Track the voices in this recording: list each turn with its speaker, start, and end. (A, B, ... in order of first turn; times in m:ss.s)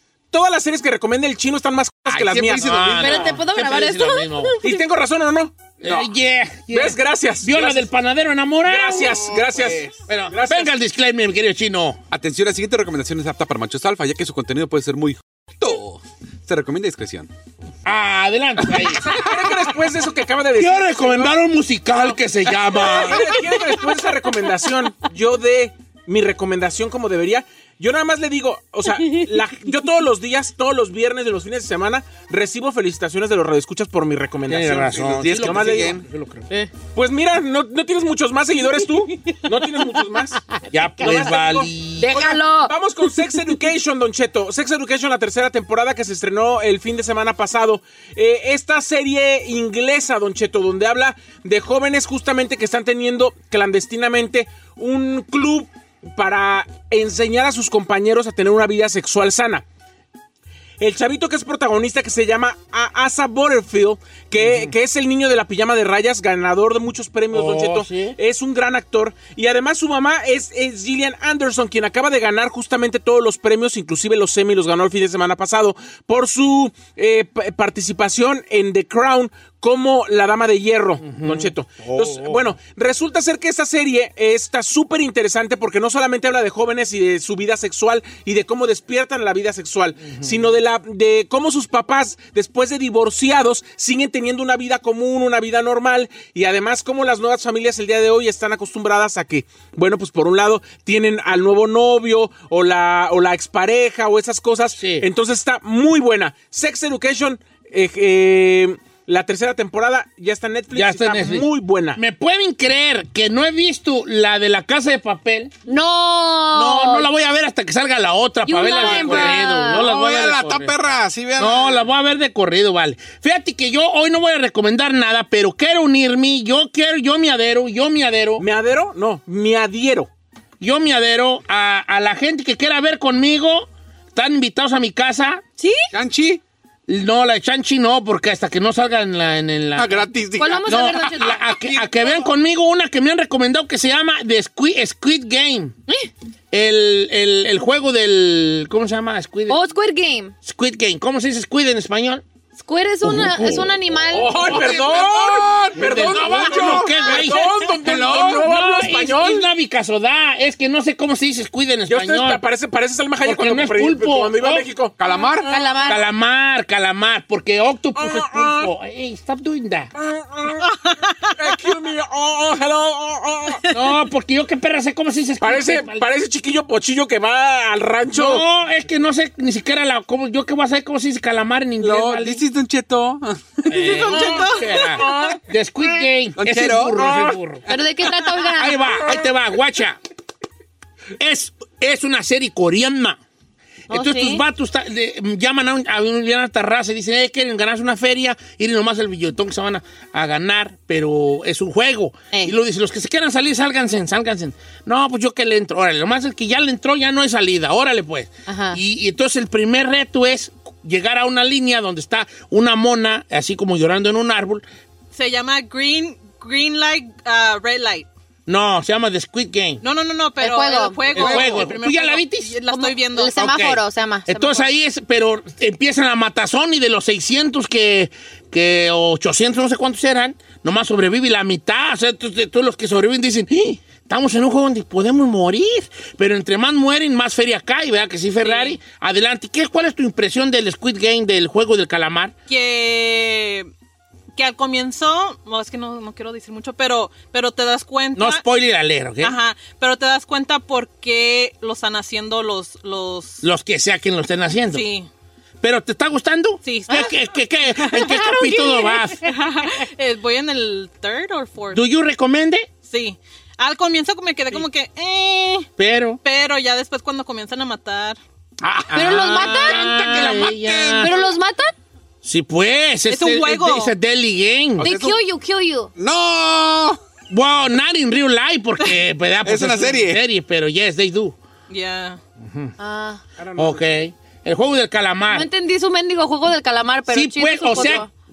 0:00.3-0:02.8 A
0:02.1-0:03.4 B
0:02.6-0:04.6 C
0:03.0-0:04.6 D
0:04.6-0:06.0 A
0:05.8-0:09.2 C
0:06.7-0:07.9 A
0:08.6-0:10.7 A
0:09.3-0:10.0 B
0:10.1-0:12.0 C
0:12.1-0:17.3 B
0:17.8-0:19.2 C
0:19.0-0:21.4 A
0:20.6-0:23.4 C
0:22.8-0:35.9 A
0:34.5-0:36.7 C
0:34.9-0:36.0 B
0:36.9-0:40.4 A
0:40.7-0:42.2 C
0:41.0-0:59.6 A
0:42.0-0:42.7 D
1:00.8-1:52.0 A
1:04.4-1:04.7 C
1:07.3-1:08.2 C
1:21.0-1:22.5 C
1:30.0-1:30.5 C
1:44.7-1:45.1 C
1:50.7-1:55.5 C
1:55.7-1:57.1 D
1:56.5-2:00.7 C
1:58.5-1:59.9 D
1:58.8-2:01.9 B
2:01.4-2:08.4 C
2:08.4-2:10.1 A
2:10.6-2:15.4 C
2:15.6-2:15.9 D
2:15.9-2:16.4 B
2:16.9-2:20.1 C
2:19.8-2:22.2 B
2:20.4-2:21.6 D
2:20.6-2:25.8 C
2:26.5-2:29.6 C
2:29.5-2:30.3 D
2:30.4-2:32.2 C
2:32.6-2:34.4 D
2:33.0-2:33.8 C
2:34.1-2:39.5 A
2:34.4-2:38.5 B
2:34.5-2:34.8 C
2:35.8-2:42.4 C
2:41.9-2:44.9 A
2:43.2-2:44.7 C
2:45.0-2:45.5 B
2:45.5-2:46.0 D
2:45.9-2:49.9 C
2:48.0-2:48.7 A
2:50.0-2:50.6 A
2:50.7-2:51.3 E
2:51.4-2:53.6 A
2:53.7-2:56.1 C
2:55.4-2:58.4 A
2:58.1-3:02.4 C
3:01.8-3:04.1 B
3:03.7-3:07.6 C
3:04.2-3:05.0 E
3:06.4-3:07.3 B
3:07.0-3:07.3 A
3:07.7-3:08.8 D
3:08.5-3:10.0 C
3:11.2-3:13.2 C
3:13.9-3:14.4 D
3:13.9-3:34.6 C
3:28.5-3:28.8 D
3:35.1-3:38.1 E
3:38.5-3:39.8 C
3:39.8-3:43.4 E
3:40.4-3:41.5 D
3:41.1-3:42.6 C
3:41.1-3:41.7 B
3:42.7-3:44.7 D
3:43.3-4:02.3 C
3:58.4-3:58.8 E
4:02.5-4:03.7 E
4:04.4-4:08.4 E
4:08.2-4:09.4 C
4:09.2-4:13.4 E
4:13.4-4:14.9 C
4:14.7-4:15.1 E
4:15.6-4:19.2 C
4:16.6-4:17.2 E
4:17.8-4:21.8 E
4:21.7-4:22.7 C
4:22.8-4:25.7 E
4:25.8-4:26.2 C
4:26.2-4:28.2 E
4:28.6-4:31.1 C
4:28.9-4:29.9 D
4:29.5-4:31.2 B
4:31.0-4:31.7 D
4:32.2-4:34.9 C
4:33.1-4:33.9 E
4:34.8-4:35.2 B
4:34.8-4:35.9 D
4:36.0-4:37.0 B
4:37.3-4:41.4 C
4:39.4-4:40.2 B
4:41.7-4:42.2 E
4:42.4-4:42.7 C
4:42.8-4:43.2 D
4:43.4-4:43.8 A
4:43.6-4:45.5 C
4:45.3-4:48.1 D
4:47.1-4:48.1 C